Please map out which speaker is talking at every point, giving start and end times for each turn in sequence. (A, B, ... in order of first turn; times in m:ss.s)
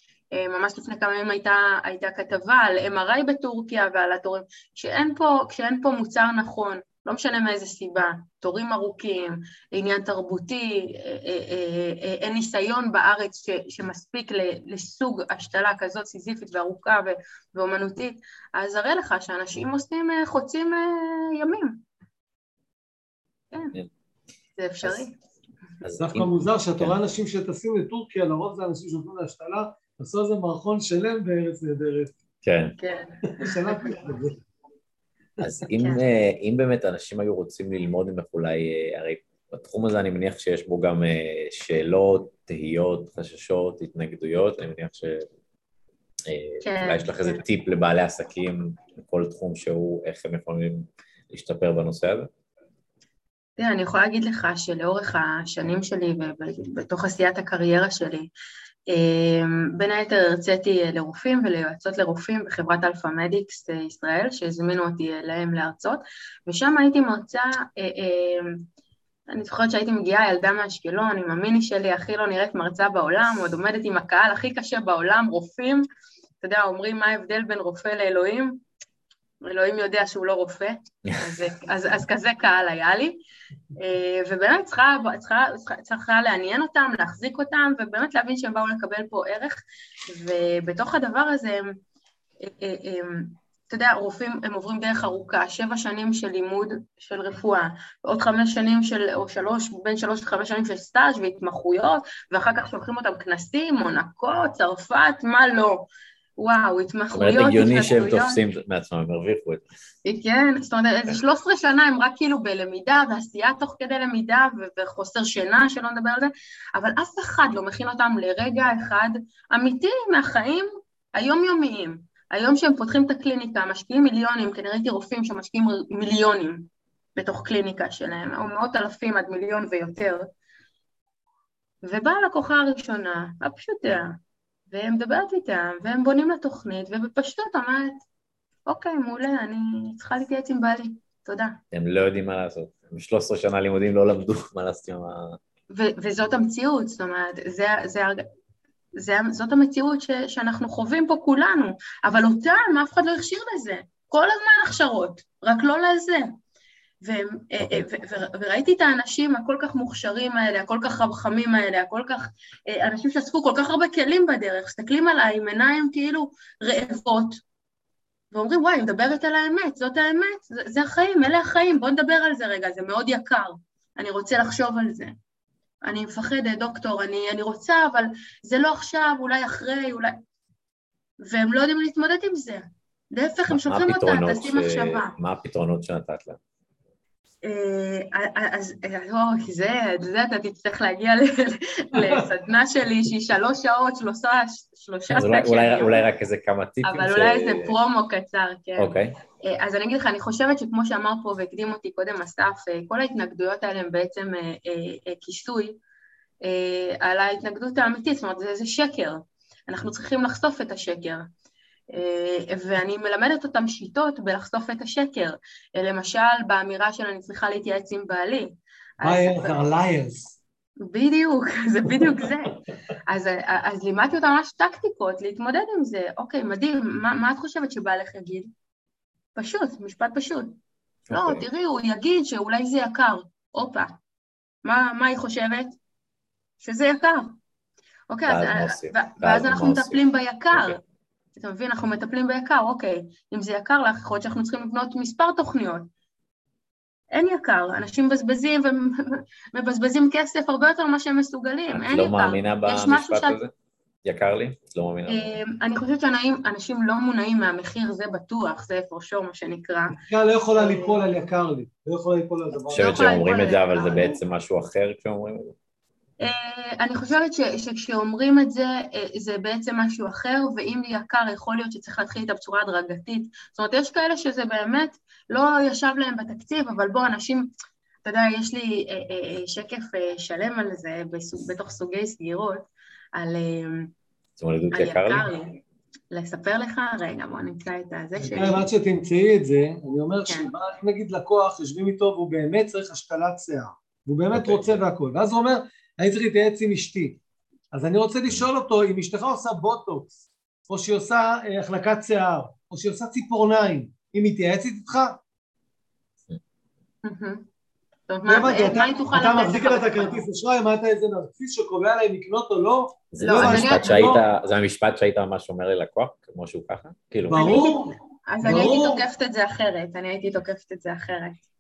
0:00.3-0:21.8 A
0:24.6-0:25.1 A
0:25.8-0:27.0 B
0:26.0-0:32.1 C
0:32.4-0:32.8 B
0:32.8-0:33.8 A
0:33.3-0:34.4 C
0:35.4-0:45.3 B
0:46.3-0:52.3 B
0:46.6-0:47.4 A
0:53.6-0:58.3 A
0:58.9-1:08.6 A
1:09.3-1:15.8 A
1:16.4-1:18.6 A
1:19.4-1:23.2 A
1:23.8-1:31.8 A
1:32.4-1:48.4 A
1:47.1-1:49.6 B
1:50.0-2:10.3 A
2:11.8-2:14.2 A
2:14.7-2:18.0 A
2:18.7-2:21.6 A
2:21.7-2:25.4 B
2:25.7-2:28.2 A
2:29.0-2:36.4 A
2:37.0-2:47.4 A
2:37.6-2:37.9 B
2:48.3-2:55.2 A
2:55.8-3:00.2 A
3:01.2-3:05.1 A
3:03.5-3:06.4 B
3:07.4-3:16.1 A
3:11.9-3:12.3 C
3:15.1-3:17.8 B
3:16.8-3:25.8 A
3:18.8-3:19.2 B
3:26.4-3:31.3 A
3:31.9-3:39.6 A
3:39.0-3:40.4 C
3:40.8-3:48.5 A
3:41.9-3:42.5 C
3:49.4-3:50.6 A
3:51.1-3:51.4 B
3:51.1-3:53.9 A
3:54.6-3:55.8 A
3:56.6-3:57.4 A
3:58.1-4:00.8 A
3:58.3-4:00.0 B
4:00.5-4:00.8 B
4:01.4-4:05.9 A
4:07.1-4:13.4 A
4:11.7-4:13.5 B
4:14.0-4:15.4 B
4:15.1-4:20.0 A
4:19.9-4:23.1 C
4:20.6-4:21.0 A
4:22.5-4:24.2 A
4:22.7-4:25.6 B
4:26.2-4:37.5 A
4:38.0-4:43.9 A
4:44.4-4:45.3 B
4:44.7-4:45.6 A
4:46.1-4:48.7 A
4:48.2-4:57.2 C
4:54.3-4:54.7 B
4:57.7-5:00.2 C
5:00.7-5:05.2 C
5:07.0-5:07.5 A
5:08.1-5:10.2 A
5:08.3-5:14.2 C
5:13.1-5:17.5 B
5:13.2-5:14.2 A
5:17.3-5:19.0 C
5:17.4-5:21.4 A